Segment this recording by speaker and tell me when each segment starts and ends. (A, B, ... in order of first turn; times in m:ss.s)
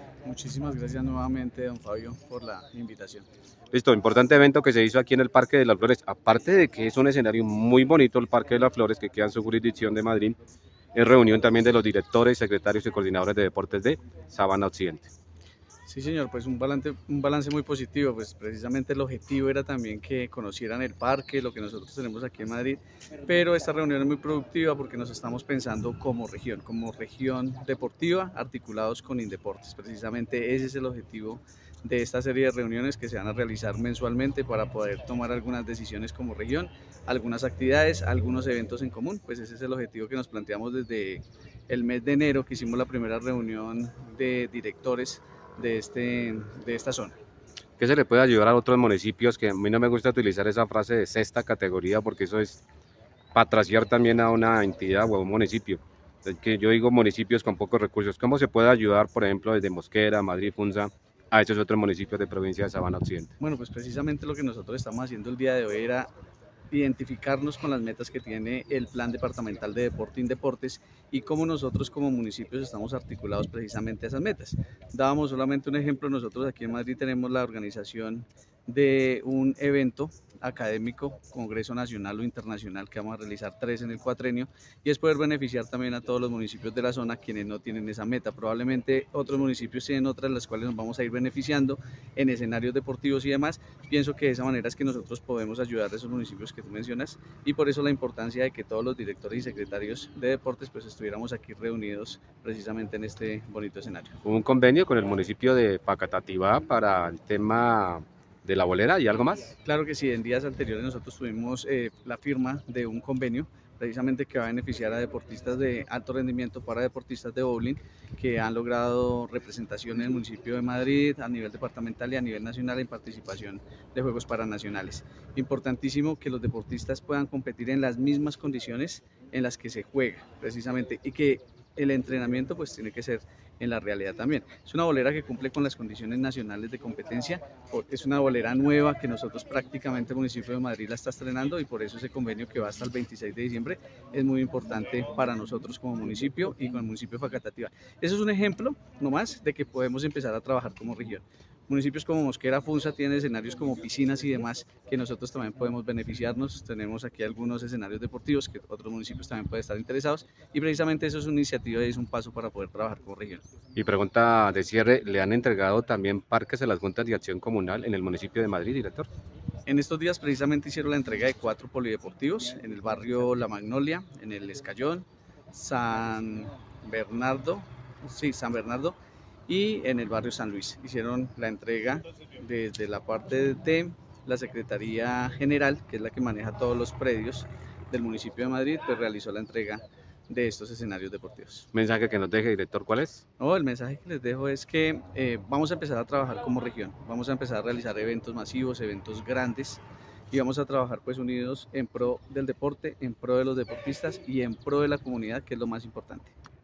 0:00.2-0:03.2 A
0:03.7-0:10.4 B
0:11.0-0:15.1 B
0:15.9-0:47.2 A
0:47.8-0:52.6 B
0:53.3-1:03.3 B
1:03.4-1:06.1 A
1:06.7-1:44.2 A
1:44.2-1:49.6 B
1:49.6-2:43.4 A
2:43.8-2:49.1 B
2:49.6-2:59.0 A
2:59.5-3:11.7 A
3:11.7-3:13.2 B
3:13.4-3:26.3 A